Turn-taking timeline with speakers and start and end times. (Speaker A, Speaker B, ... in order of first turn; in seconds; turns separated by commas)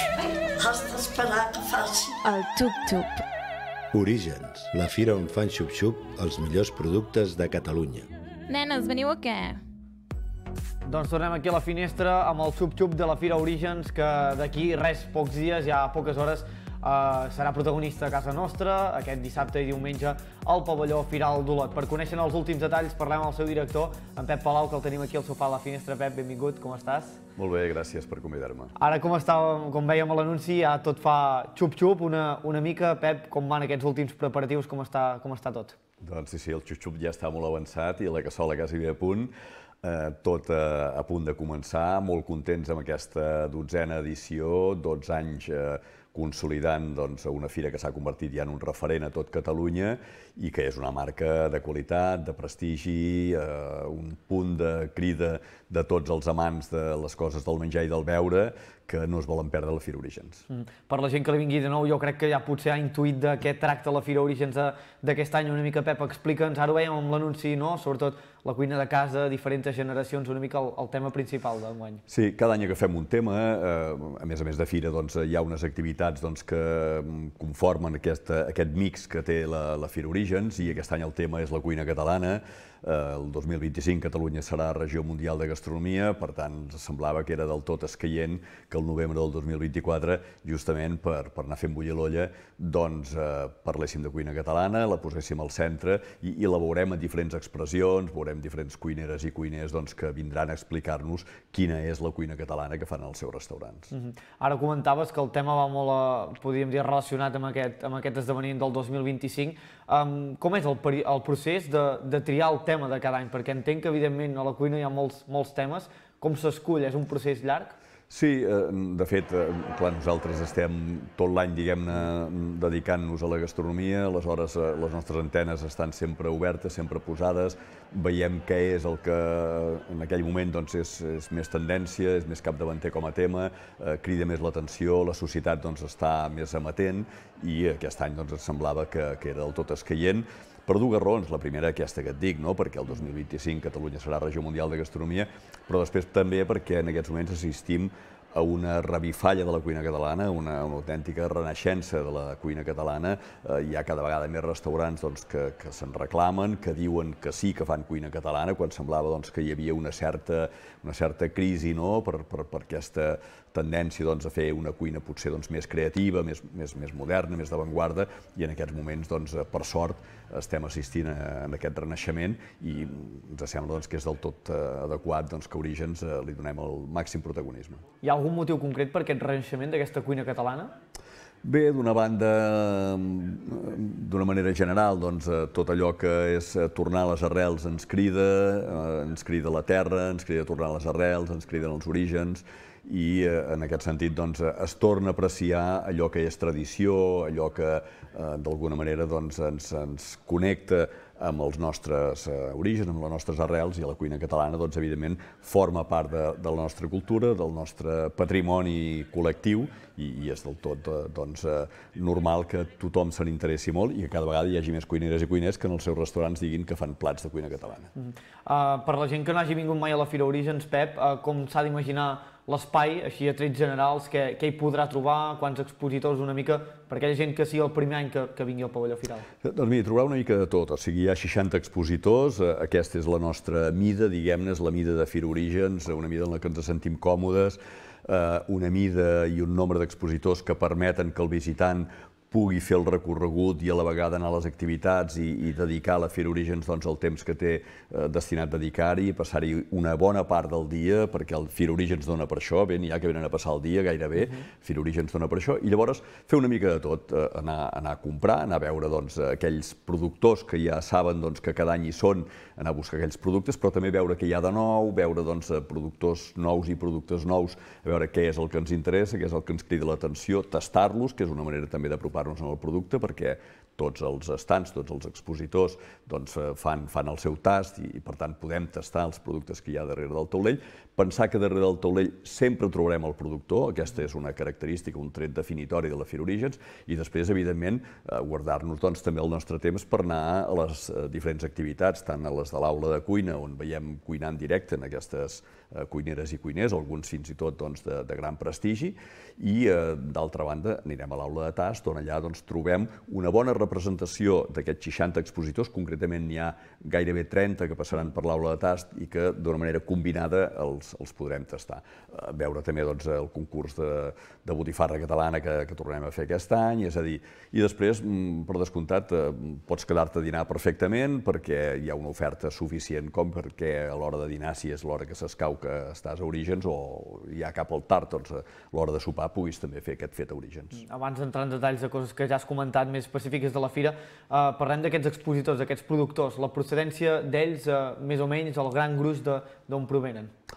Speaker A: 2.2-3.2, Speaker B: 3.9-8.1, Speaker A: 8.5-9.6, Speaker C: 10.8-27.2, Speaker D: 27.4-28.7, Speaker C: 28.8-35.8, Speaker D: 36.0-39.3, Speaker D: 39.8-60.4, Speaker C: 60.5-72.0, Speaker D: 72.1-103.9, Speaker C: 103.9-117.7, Speaker D: 118.1-177.8, Speaker C: 178.0-180.7, Speaker D: 181.4-217.9, Speaker C: 217.9-229.2, Speaker D: 229.4-330.8, Speaker C: 330.7-340.3